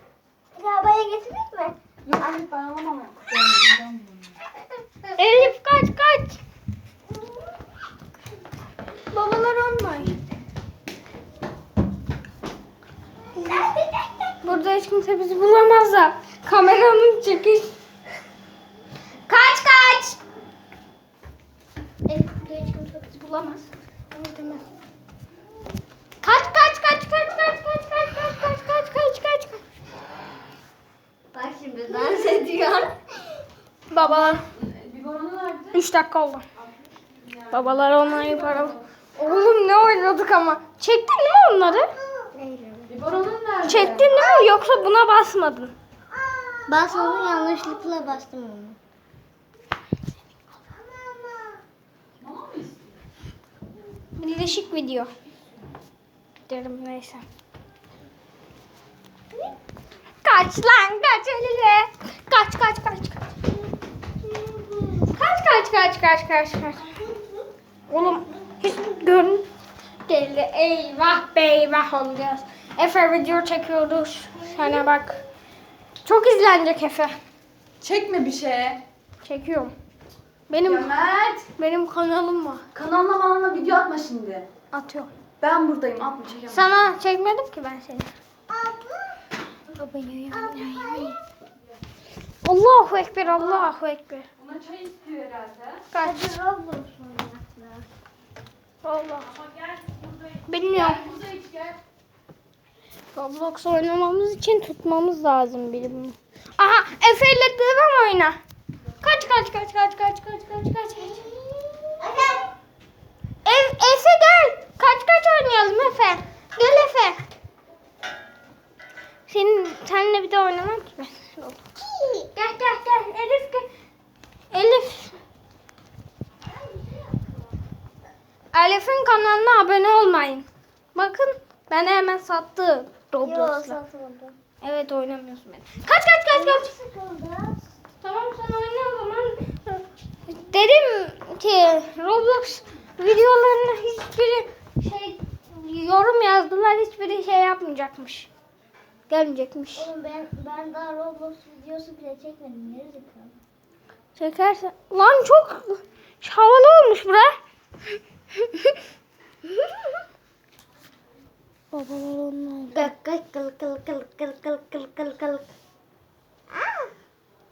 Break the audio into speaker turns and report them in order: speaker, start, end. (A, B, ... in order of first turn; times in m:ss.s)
0:00.5-0:01.8 A
0:02.0-0:04.4 B
0:05.0-0:05.5 A
0:05.2-0:06.4 C
0:09.1-0:10.2 C
0:13.3-0:13.7 C
0:13.4-0:14.2 A
0:14.4-0:17.7 C
0:19.3-0:20.2 C
0:22.1-0:24.6 C
0:26.2-0:29.6 C
0:31.3-0:33.2 A
0:33.9-0:34.4 C
0:34.0-0:35.7 B
0:35.7-0:36.4 C
0:37.5-0:41.9 C
0:38.0-0:38.8 B
0:42.1-0:42.9 A
0:42.9-0:44.1 B
0:43.6-0:45.7 C
0:46.3-0:48.8 A
0:50.9-0:51.6 A
0:52.2-0:52.8 B
0:54.2-0:55.1 C
0:56.5-0:57.2 C
1:00.2-1:03.2 C
1:05.1-1:07.0 C
1:07.9-1:09.4 C
1:10.1-1:15.2 C
1:16.0-1:17.2 C
1:17.8-1:18.8 B
1:19.2-1:19.8 C
1:20.5-1:20.9 C
1:20.6-1:21.5 B
1:21.5-1:22.7 C
1:22.7-1:24.5 B
1:24.7-1:25.1 C
1:25.4-1:26.7 B
1:26.5-1:28.1 C
1:28.5-1:29.2 A
1:29.8-1:31.2 C
1:30.0-1:31.2 A
1:32.4-1:34.3 C
1:34.4-1:35.8 B
1:35.9-1:36.4 C
1:36.0-1:37.9 A
1:38.8-1:39.3 C
1:40.5-1:41.1 C
1:40.7-1:41.8 B
1:43.1-1:48.4 C
1:49.0-1:51.3 C
1:51.2-1:52.5 A
1:53.4-1:57.3 C
1:59.3-2:01.6 C
2:01.8-2:02.2 A
2:02.3-2:03.7 C
2:04.5-2:05.2 C
2:08.5-2:13.8 C
2:13.2-2:14.4 A
2:14.6-2:16.7 C
2:16.3-2:17.6 A
2:18.0-2:28.3 C
2:29.1-2:29.9 C
2:29.8-2:33.4 A
2:34.2-2:37.4 C
2:38.4-2:38.8 C
2:41.7-2:42.9 C
2:42.7-2:45.5 A